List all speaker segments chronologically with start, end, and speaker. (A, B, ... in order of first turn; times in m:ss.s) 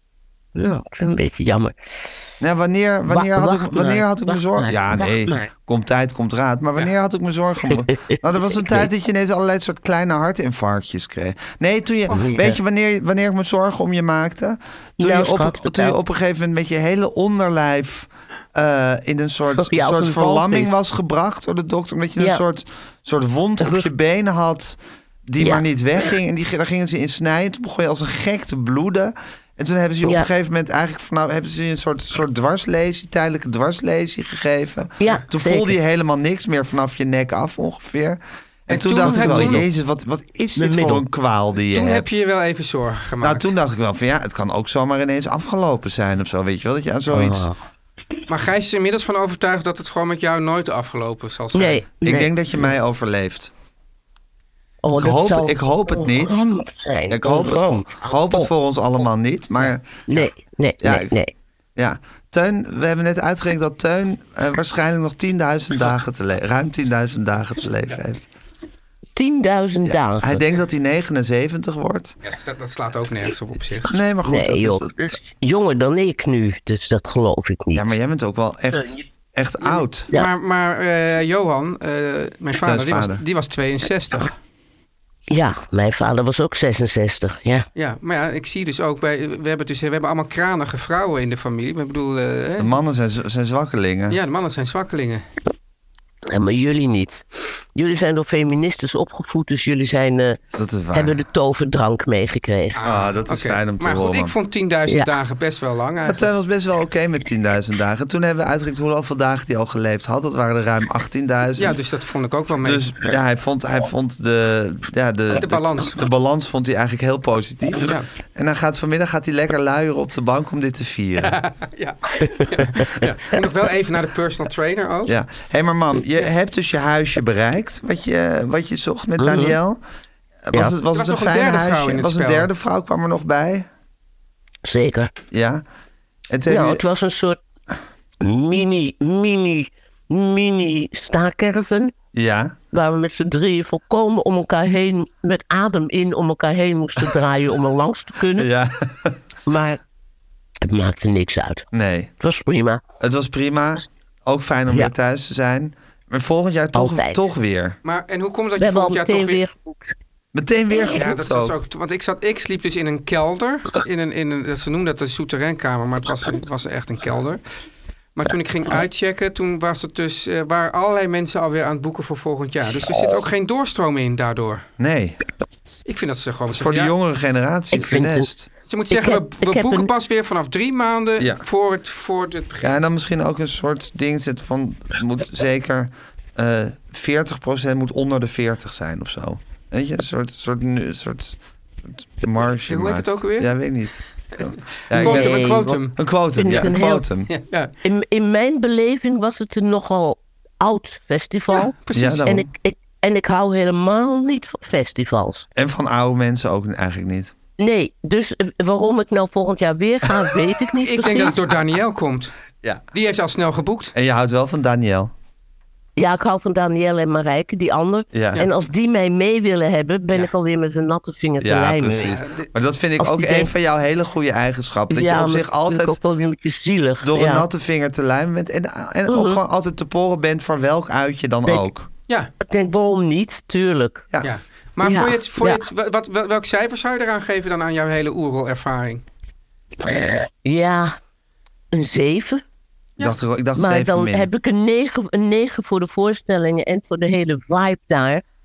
0:00.5-0:02.3 A
0:02.4-0:42.2 B
0:03.1-0:05.5 A
0:07.7-0:08.9 A
0:12.1-0:12.6 A
0:15.0-0:16.0 A
0:19.6-0:20.7 A
0:23.6-0:23.9 A
0:25.4-0:25.6 A
0:30.0-0:30.3 A
0:35.0-0:35.8 A
0:38.7-0:39.6 C
0:39.0-0:39.6 A
0:40.6-0:41.0 A
0:41.7-0:43.5 C
0:43.2-0:47.5 B
0:47.1-0:47.6 A
0:48.3-0:51.8 C
0:51.5-0:52.7 A
0:52.0-0:53.5 B
0:54.8-0:58.5 A
0:55.0-0:56.4 B
0:57.1-1:00.2 B
1:00.1-1:01.3 A
1:00.8-1:01.1 B
1:01.8-1:08.3 B
1:09.2-1:10.4 A
1:09.8-1:12.2 B
1:12.2-1:13.9 C
1:13.8-1:15.0 B
1:14.2-1:17.9 A
1:17.7-1:20.1 B
1:18.7-1:19.0 A
1:20.1-1:24.3 C
1:22.6-1:23.2 B
1:25.3-1:27.7 A
1:27.7-1:32.7 C
1:32.6-1:34.2 B
1:34.1-1:35.2 C
1:36.3-1:40.4 A
1:40.6-1:41.2 B
1:40.9-1:42.8 A
1:42.7-1:46.2 C
1:42.8-1:44.3 B
1:46.0-1:51.8 B
1:51.6-1:52.9 C
1:52.6-2:01.4 B
1:55.4-1:56.0 C
1:57.8-1:58.1 C
2:01.2-2:05.1 C
2:02.8-2:03.1 A
2:05.1-2:09.8 B
2:09.2-2:09.6 A
2:10.5-2:13.7 B
2:10.5-2:10.8 A
2:10.9-2:12.5 C
2:14.6-2:15.1 A
2:15.3-2:15.6 B
2:16.3-2:16.8 B
2:16.5-2:17.4 A
2:18.2-2:21.9 A
2:22.1-2:22.6 B
2:22.7-2:28.5 A
2:28.3-2:29.2 B
2:29.5-2:29.8 A
2:30.6-2:31.6 A
2:31.7-2:32.1 B
2:32.2-2:32.8 A
2:33.0-2:37.8 B
2:36.7-2:37.2 A
2:37.8-2:39.4 C
2:38.6-2:39.9 A
2:40.3-2:41.6 B
2:40.9-2:47.4 C
2:48.1-2:54.6 C
2:54.8-2:55.2 B
2:55.8-2:56.9 C
2:56.5-2:58.5 B
2:57.7-2:58.3 A
2:58.7-3:02.7 C
2:58.9-2:59.9 A
3:01.2-3:01.4 B
3:02.6-3:17.3 B
3:12.6-3:13.5 C
3:14.5-3:16.7 C
3:14.9-3:17.1 A
3:17.3-3:17.7 C
3:17.8-3:25.5 A
3:21.5-3:22.3 C
3:21.9-3:22.5 B
3:25.5-3:27.3 B
3:27.6-3:31.4 A
3:30.8-3:32.3 C
3:32.9-3:33.9 C
3:33.9-3:35.1 B
3:36.0-3:42.1 A
3:38.1-3:38.4 B
3:41.4-3:46.0 B
3:41.9-3:42.5 C
3:43.0-3:43.5 A
3:44.9-3:47.5 A
3:47.0-3:51.9 B
3:49.1-3:49.4 A
3:52.4-3:54.1 A
3:54.2-3:59.0 C
3:54.8-3:55.6 A
3:59.8-4:00.9 A
4:01.7-4:02.4 A
4:03.0-4:03.2 C
4:03.0-4:04.3 B
4:03.5-4:08.2 A